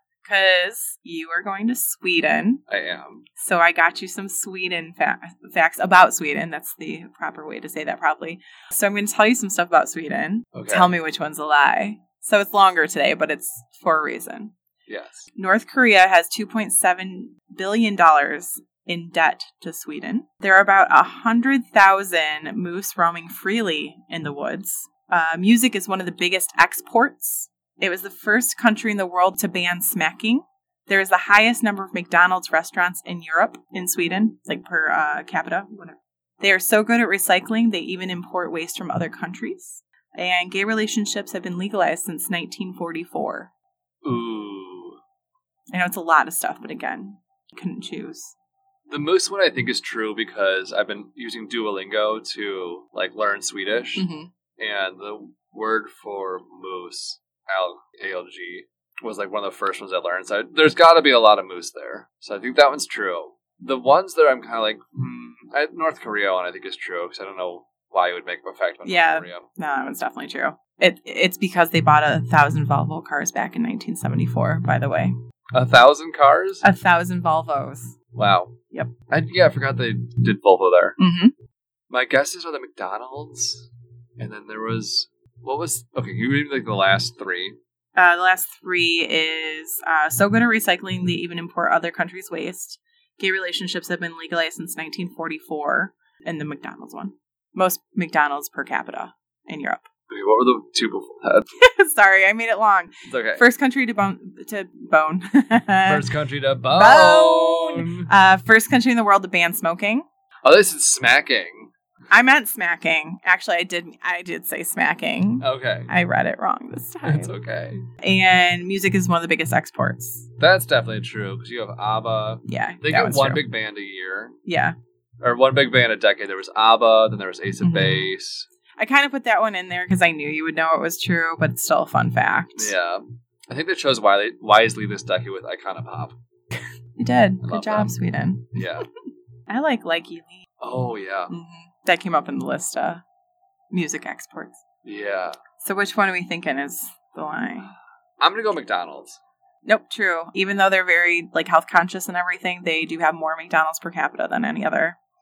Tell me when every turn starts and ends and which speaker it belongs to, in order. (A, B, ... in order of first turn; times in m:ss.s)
0:00.2-0:02.6 A
0:02.7-0:03.2 B
0:03.4-0:14.5 A
0:10.5-0:10.9 B
0:14.9-0:15.3 B
0:15.3-0:43.5 A
0:44.0-0:45.0 B
0:45.7-0:48.3 A
0:48.9-0:54.0 B
0:54.0-0:54.3 A
0:54.6-1:09.5 B
1:08.8-1:15.1 A
1:15.5-1:16.6 B
1:16.6-1:18.0 A
1:18.1-1:18.6 B
1:19.1-1:21.0 B
1:21.0-1:21.3 A
1:21.9-1:27.6 B
1:28.0-1:39.9 A
1:40.1-1:41.5 B
1:41.6-1:46.1 A
1:43.0-1:43.4 B
1:45.9-1:48.1 B
1:46.7-1:50.0 A
1:50.4-1:51.7 B
1:52.1-1:57.4 A
1:55.4-1:55.9 B
1:57.0-1:57.8 B
1:58.0-2:00.3 A
2:00.4-2:04.3 B
2:02.4-2:03.4 A
2:04.4-2:04.7 A
2:05.2-2:08.5 B
2:07.6-2:08.1 A
2:08.8-2:12.8 A
2:12.6-2:16.2 B
2:17.0-2:18.8 A
2:17.4-2:17.9 B
2:18.5-2:18.9 B
2:19.5-2:20.4 A
2:20.6-2:21.3 B
2:21.3-2:23.0 A
2:23.7-2:24.6 A
2:24.8-2:25.4 B
2:25.6-2:27.7 A
2:28.2-2:29.2 B
2:29.6-2:35.0 A